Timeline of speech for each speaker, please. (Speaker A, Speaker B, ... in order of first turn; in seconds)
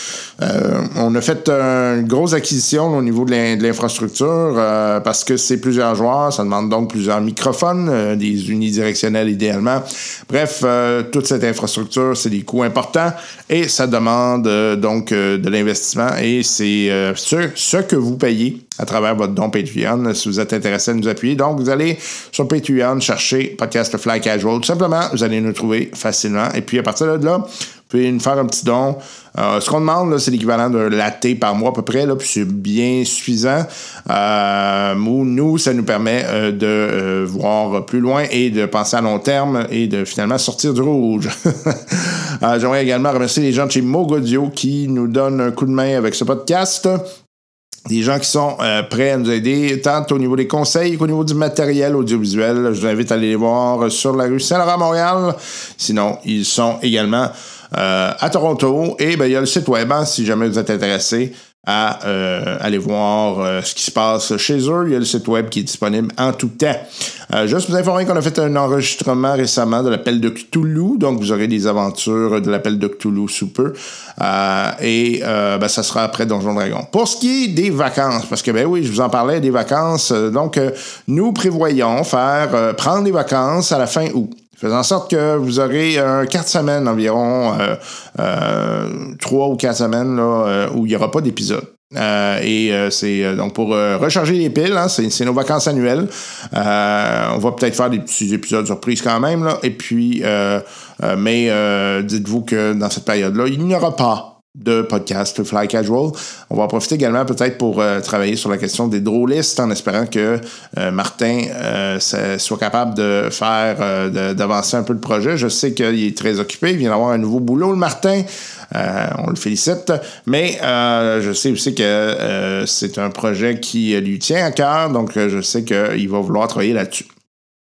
Speaker A: 0.4-47.1, 47.9-127.1